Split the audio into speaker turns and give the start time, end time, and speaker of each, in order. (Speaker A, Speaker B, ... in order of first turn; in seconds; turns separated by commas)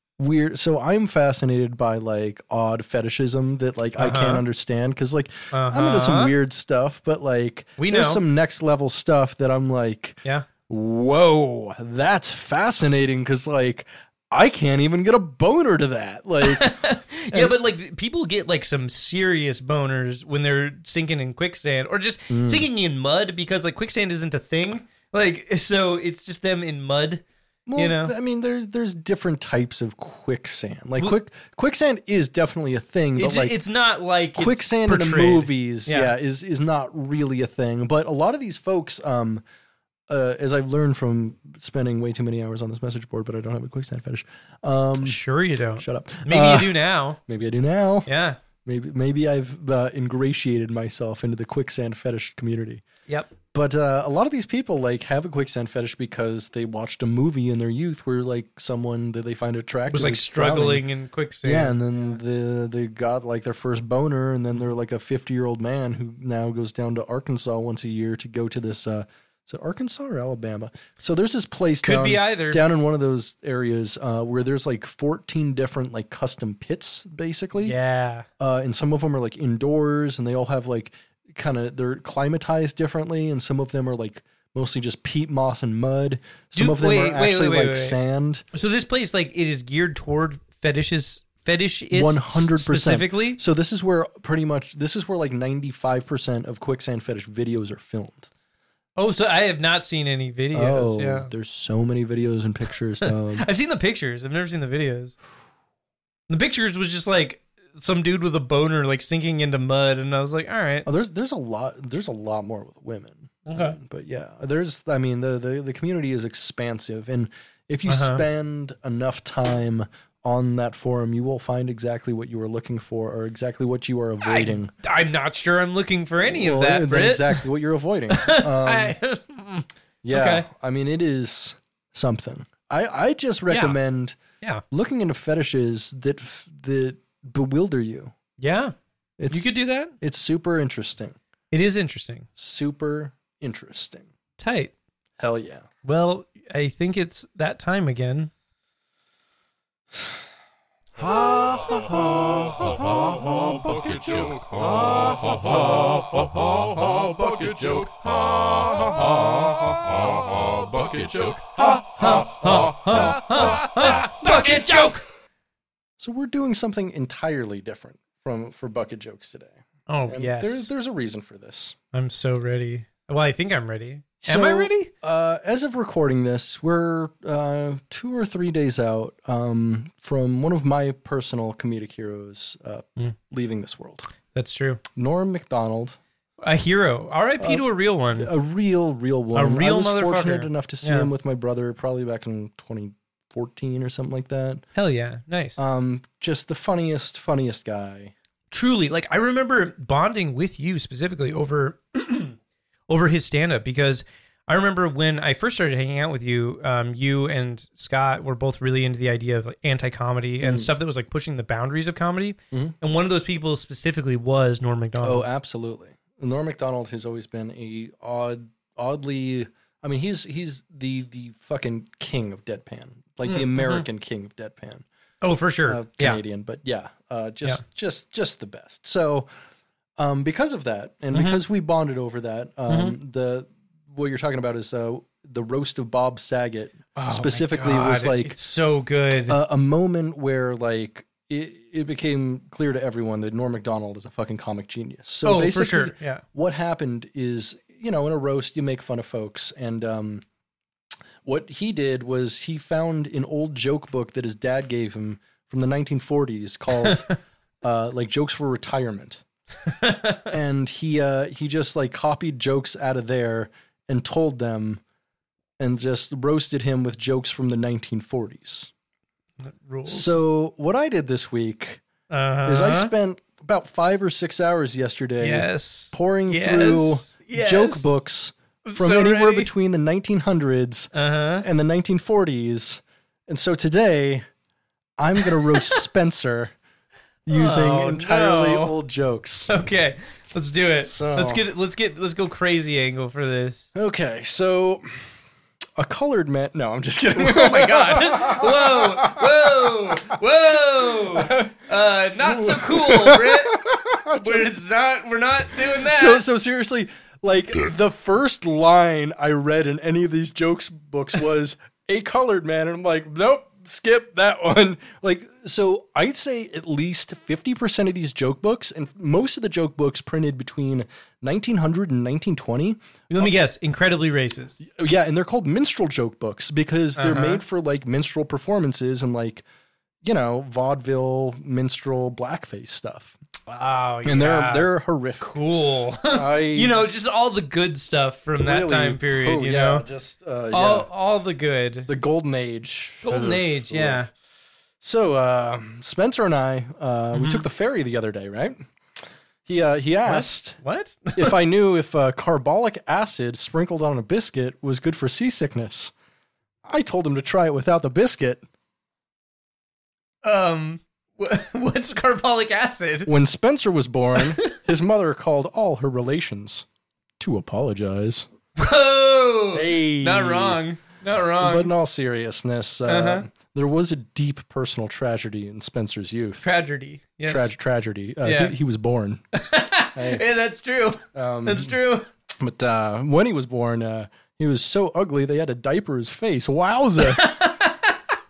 Speaker A: 0.2-16.8, Speaker B: 4.0-4.4, Speaker B: 5.5-6.3, Speaker B: 7.8-8.2, Speaker B: 16.4-27.2, Speaker A: 22.3-22.7, Speaker A: 27.7-33.6, Speaker B: 27.8-28.1, Speaker B: 33.2-36.1, Speaker A: 34.4-39.4, Speaker A: 40.1-45.2, Speaker B: 45.0-47.2, Speaker A: 45.8-48.1, Speaker B: 48.1-48.4, Speaker A: 48.6-52.9, Speaker A: 53.5-60.9, Speaker B: 59.9-62.2, Speaker A: 61.4-77.8, Speaker B: 71.8-72.6, Speaker B: 77.6-78.3, Speaker A: 78.4-88.4, Speaker B: 86.5-88.0, Speaker B: 88.5-93.4, Speaker A: 91.9-98.3, Speaker B: 99.0-101.3, Speaker A: 100.5-103.5, Speaker B: 103.0-105.2, Speaker B: 106.3-110.9, Speaker A: 110.8-124.7, Speaker B: 113.5-113.8, Speaker B: 117.9-118.2, Speaker B: 124.2-127.4, Speaker A: 126.2-129.0, Speaker B: 128.1-130.5, Speaker A: 130.0-134.2, Speaker B: 133.5-133.8, Speaker A: 134.7-138.1, Speaker B: 138.4-138.7, Speaker A: 139.2-141.2, Speaker B: 139.3-139.9, Speaker B: 141.5-142.3, Speaker A: 142.4-144.1, Speaker B: 144.4-144.7, Speaker A: 145.2-145.7, Speaker B: 145.8-148.3, Speaker C: 151.0-161.9, Speaker B: 162.0-165.0, Speaker C: 162.4-163.4, Speaker A: 166.0-169.6, Speaker B: 169.9-170.7, Speaker A: 170.1-171.8, Speaker B: 171.9-174.9, Speaker A: 174.2-184.1, Speaker B: 184.3-184.8, Speaker A: 184.9-186.0, Speaker B: 186.4-188.3, Speaker A: 187.4-187.7, Speaker A: 188.2-194.7, Speaker B: 189.3-191.1, Speaker B: 194.8-195.6, Speaker A: 195.6-198.1, Speaker B: 198.5-202.4, Speaker B: 202.9-215.3, Speaker A: 210.4-210.7, Speaker A: 215.0-224.8, Speaker B: 223.3-223.8, Speaker B: 225.2-226.2, Speaker A: 225.7-229.3, Speaker A: 230.0-238.4, Speaker B: 231.1-231.4, Speaker B: 232.7-232.9, Speaker B: 236.9-239.4, Speaker A: 239.3-250.2, Speaker B: 245.2-246.2, Speaker A: 251.2-257.1, Speaker A: 257.6-259.2, Speaker B: 259.7-260.2, Speaker A: 260.3-264.8, Speaker A: 265.6-268.7, Speaker B: 269.4-270.2, Speaker A: 269.9-271.8, Speaker B: 272.1-272.9, Speaker A: 272.5-284.2, Speaker B: 275.2-278.0, Speaker B: 278.6-279.5, Speaker B: 280.9-281.4, Speaker A: 285.0-286.5, Speaker A: 287.3-289.5, Speaker B: 287.3-288.8, Speaker B: 289.5-293.7, Speaker A: 290.9-291.4, Speaker A: 293.8-295.0, Speaker A: 295.8-299.9, Speaker B: 297.2-303.6, Speaker A: 301.1-301.5, Speaker A: 302.2-304.6, Speaker B: 304.2-306.2, Speaker A: 305.7-323.3, Speaker B: 323.1-324.6, Speaker A: 324.6-329.4, Speaker B: 327.0-327.4, Speaker A: 330.0-333.1, Speaker B: 333.5-334.7, Speaker A: 334.1-335.3, Speaker B: 335.2-339.9, Speaker A: 336.1-336.8, Speaker A: 338.4-340.9, Speaker B: 340.5-341.9, Speaker A: 341.9-344.0, Speaker B: 343.0-344.1, Speaker A: 344.8-348.6, Speaker B: 347.1-347.4, Speaker A: 349.5-350.6, Speaker B: 350.1-351.4, Speaker A: 351.1-355.9, Speaker A: 356.6-358.4, Speaker B: 360.2-363.1, Speaker A: 363.1-366.7, Speaker B: 364.2-364.6, Speaker A: 367.2-368.3, Speaker B: 368.6-371.7, Speaker A: 369.5-370.6, Speaker A: 371.4-376.4, Speaker B: 372.9-373.3, Speaker B: 376.4-377.5, Speaker A: 377.3-379.2, Speaker B: 378.2-378.6, Speaker B: 379.3-382.1, Speaker A: 379.9-380.2, Speaker A: 381.1-381.8, Speaker A: 382.3-387.4, Speaker B: 387.0-388.0